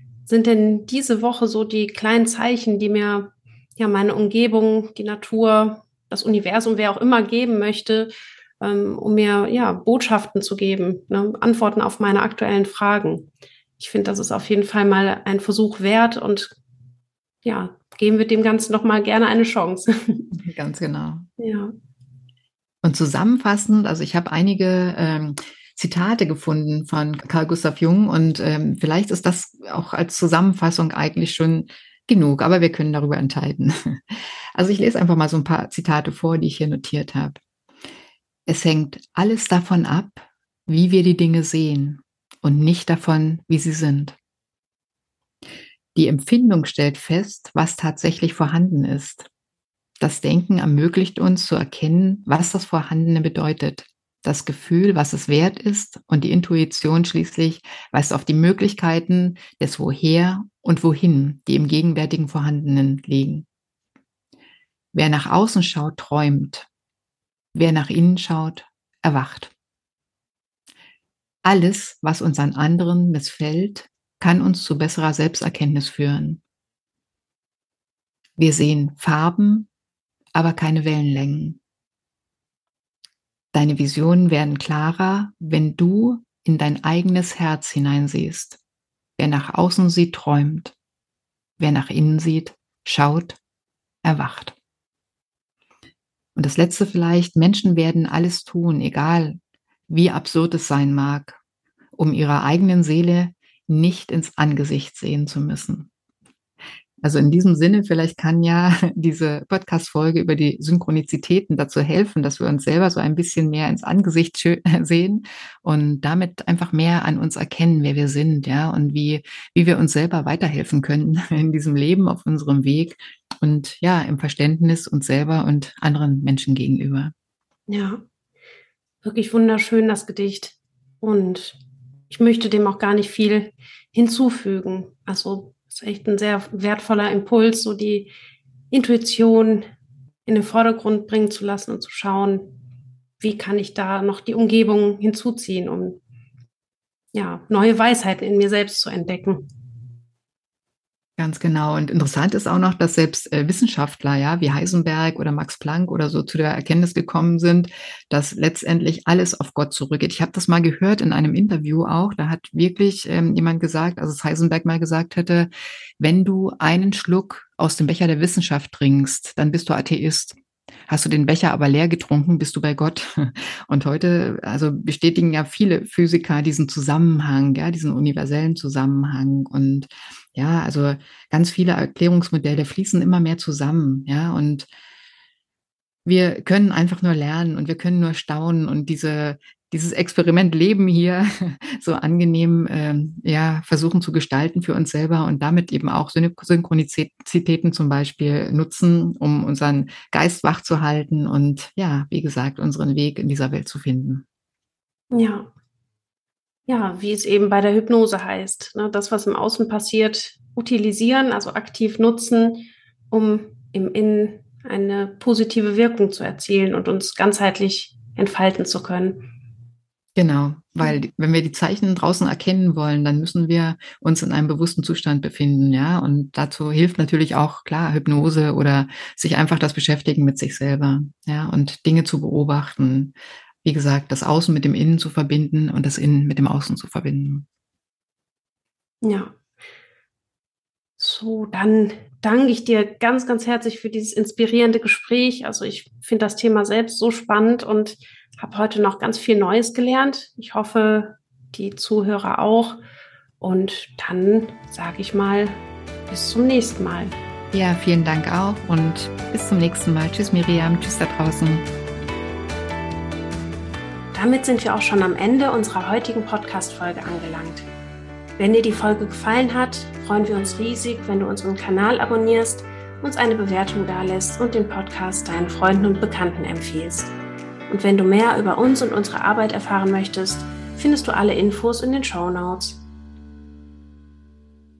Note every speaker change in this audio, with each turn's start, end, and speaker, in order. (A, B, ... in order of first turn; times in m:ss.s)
0:00.2-0:13.3 A
0:13.8-0:16.5 A
0:17.4-0:20.3 A
0:20.4-0:21.3 B
0:21.4-0:21.7 A
0:22.8-0:37.4 B
0:38.5-0:44.2 B
0:45.9-0:49.3 B
0:50.0-1:03.4 B
1:04.9-1:06.7 B
1:07.5-1:09.5 B
1:11.4-1:16.4 B
1:18.4-1:19.7 B
1:20.3-1:21.6 B
1:23.5-1:28.6 B
1:29.2-1:30.7 B
1:31.6-1:33.4 B
1:34.0-1:34.5 B
1:36.4-1:39.4 B
1:39.9-1:41.4 B
1:42.0-1:45.9 B
1:47.0-2:07.1 B
2:07.7-2:08.0 A
2:09.0-2:11.6 A
2:12.1-2:18.1 A
2:18.7-2:19.6 A
2:20.3-2:22.5 A
2:23.2-2:26.0 A
2:27.1-2:29.4 A
2:31.2-2:50.4 B
2:50.9-3:04.7 B
3:06.0-3:24.2 B
3:25.1-3:25.5 A
3:26.7-3:39.3 A
3:40.2-3:57.4 B
3:59.0-3:59.3 A
4:01.0-4:12.8 A
4:13.4-4:17.1 A
4:17.5-4:21.6 B
4:24.1-4:27.7 A
4:28.4-4:37.1 A
4:37.7-4:42.8 A